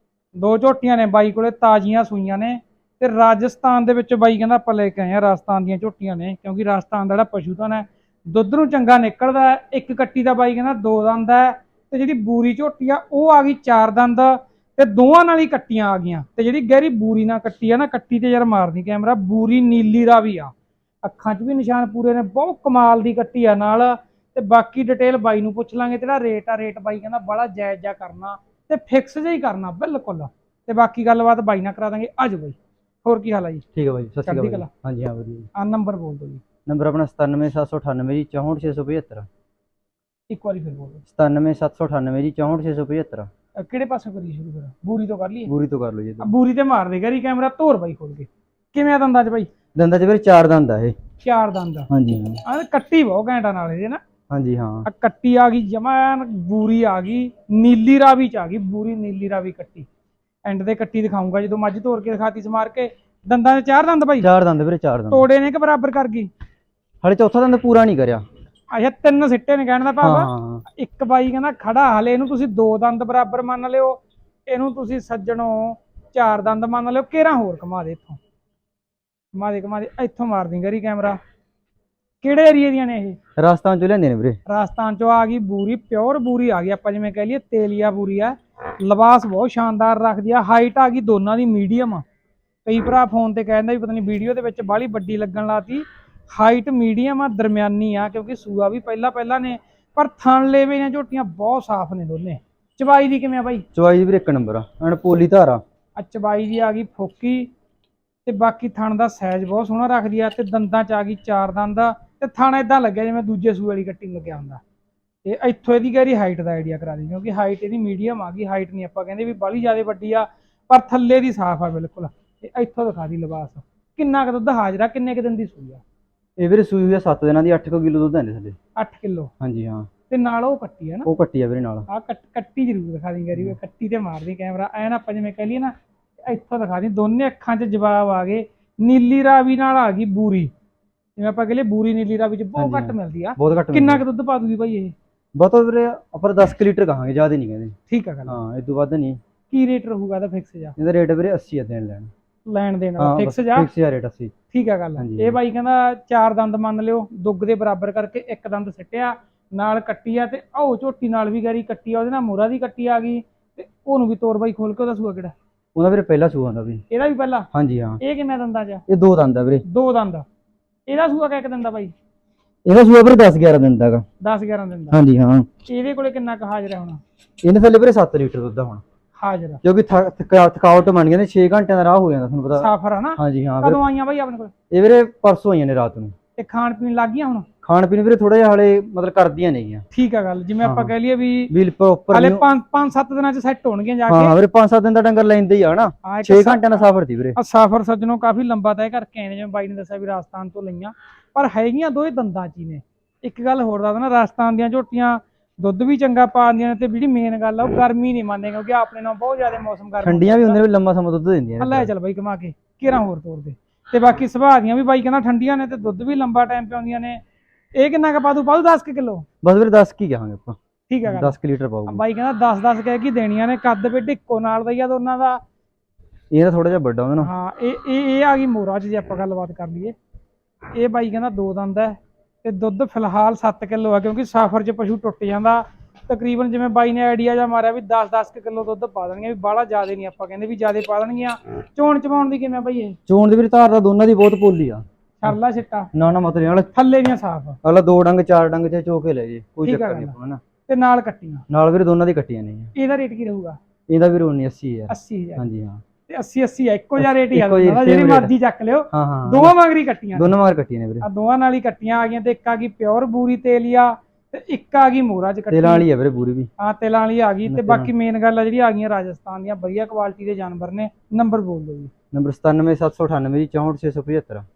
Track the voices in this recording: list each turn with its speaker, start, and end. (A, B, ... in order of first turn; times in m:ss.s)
0:00.3-0:20.5 A
0:21.0-0:33.6 A
0:33.7-0:35.5 B
0:34.2-0:34.7 A
0:35.5-0:36.4 A
0:36.6-0:39.3 B
0:40.3-0:41.0 A
0:41.1-0:43.3 B
0:43.6-0:45.5 A
0:45.5-0:46.3 B
0:46.2-0:49.5 A
0:49.7-0:51.0 B
0:51.2-0:51.9 A
0:51.9-0:52.4 B
0:52.4-0:54.0 A
0:54.3-0:54.9 B
0:54.8-0:59.9 A
1:00.4-1:04.3 A
1:04.2-1:05.3 B
1:05.1-1:06.3 A
1:07.0-1:08.2 B
1:08.7-1:18.2 A
1:10.0-1:10.6 B
1:19.3-1:21.2 A
1:22.2-1:23.2 A
1:23.4-1:24.4 B
1:24.5-1:32.0 A
1:32.6-1:43.6 A
1:43.7-1:45.6 B
1:46.0-1:47.5 A
1:48.2-1:54.6 A
1:55.2-2:05.8 A
2:06.4-2:08.6 B
2:08.8-2:09.3 A
2:09.4-2:09.9 B
2:10.1-2:11.1 A
2:11.0-2:11.9 B
2:11.9-2:15.7 A
2:16.2-2:20.5 A
2:21.2-2:24.9 A
2:22.6-2:24.0 B
2:25.3-2:27.8 B
2:27.9-2:28.4 A
2:28.3-2:29.2 B
2:29.5-2:30.8 A
2:30.8-2:32.1 B
2:32.4-2:33.7 A
2:33.0-2:34.3 B
2:34.5-2:45.3 A
2:35.0-2:35.4 B
2:45.7-2:46.8 B
2:46.9-2:47.5 A
2:47.5-2:48.0 B
2:48.0-2:48.8 A
2:48.9-2:49.6 B
2:49.6-2:50.2 A
2:50.9-2:51.9 A
2:52.6-2:54.0 B
2:54.2-2:55.0 A
2:54.9-2:55.5 B
2:55.6-2:57.0 A
2:57.4-2:58.8 B
2:59.2-2:59.6 A
2:59.6-3:03.8 B
3:02.6-3:04.5 A
3:04.7-3:06.1 B
3:06.4-3:07.5 A
3:07.6-3:09.8 B
3:09.9-3:11.5 A
3:10.6-3:10.9 B
3:11.5-3:12.4 B
3:12.1-3:14.3 A
3:14.1-3:17.4 B
3:16.0-3:16.8 A
3:17.4-3:30.6 A
3:30.0-3:31.9 B
3:31.6-3:37.2 A
3:37.8-3:39.2 A
3:39.4-3:42.0 B
3:40.9-3:41.4 A
3:41.9-3:45.4 A
3:46.3-3:47.3 B
3:47.2-3:49.9 A
3:50.7-4:03.0 A
4:03.1-4:05.4 B
4:05.2-4:05.9 A
4:05.9-4:06.7 B
4:06.7-4:07.6 A
4:07.6-4:10.4 B
4:09.6-4:10.1 A
4:10.7-4:11.4 A
4:11.5-4:12.7 B
4:12.7-4:13.6 A
4:13.9-4:15.8 B
4:14.9-4:15.4 A
4:16.1-4:20.3 A
4:17.0-4:18.3 B
4:18.9-4:19.5 B
4:20.1-4:21.1 B
4:21.0-4:25.8 A
4:25.5-4:26.5 B
4:26.6-4:31.9 A
4:27.4-4:27.9 B
4:32.1-4:34.4 B